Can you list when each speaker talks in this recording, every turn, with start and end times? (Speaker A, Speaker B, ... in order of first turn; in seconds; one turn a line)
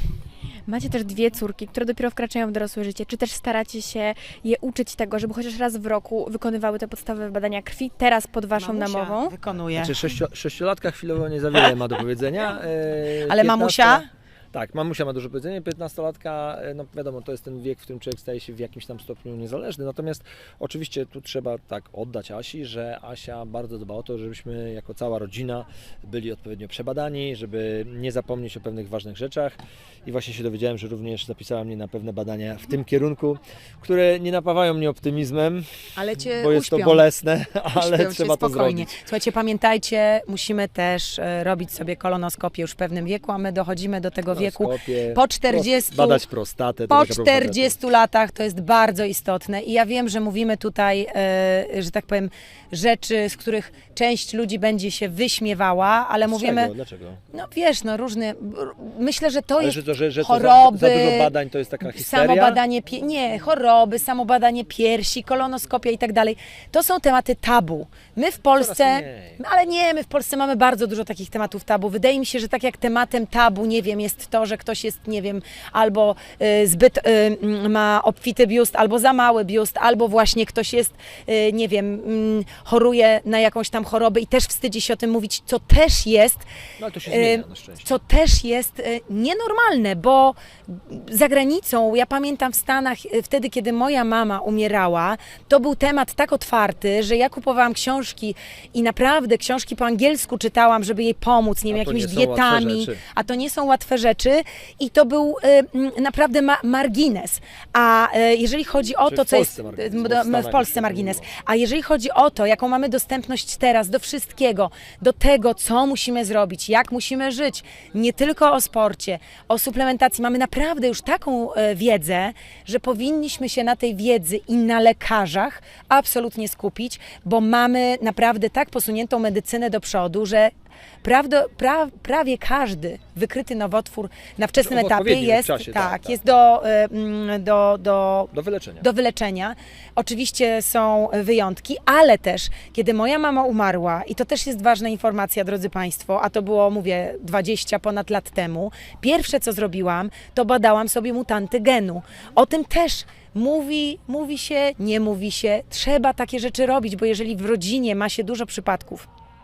Speaker A: 0.7-9.3
Speaker B: 8.6-10.0
Speaker C: 9.8-39.0
Speaker B: 13.3-14.1
Speaker B: 36.0-37.1
Speaker B: 37.8-46.2
Speaker C: 44.3-47.8
Speaker B: 46.9-56.7
Speaker C: 56.3-57.2
Speaker B: 57.3-86.5
Speaker C: 59.6-62.6
Speaker C: 68.5-69.4
Speaker C: 86.8-88.0
Speaker B: 87.1-130.5
Speaker C: 101.7-103.0
Speaker C: 109.0-111.3
Speaker B: 131.0-159.1
Speaker C: 134.6-136.2
Speaker C: 138.3-138.8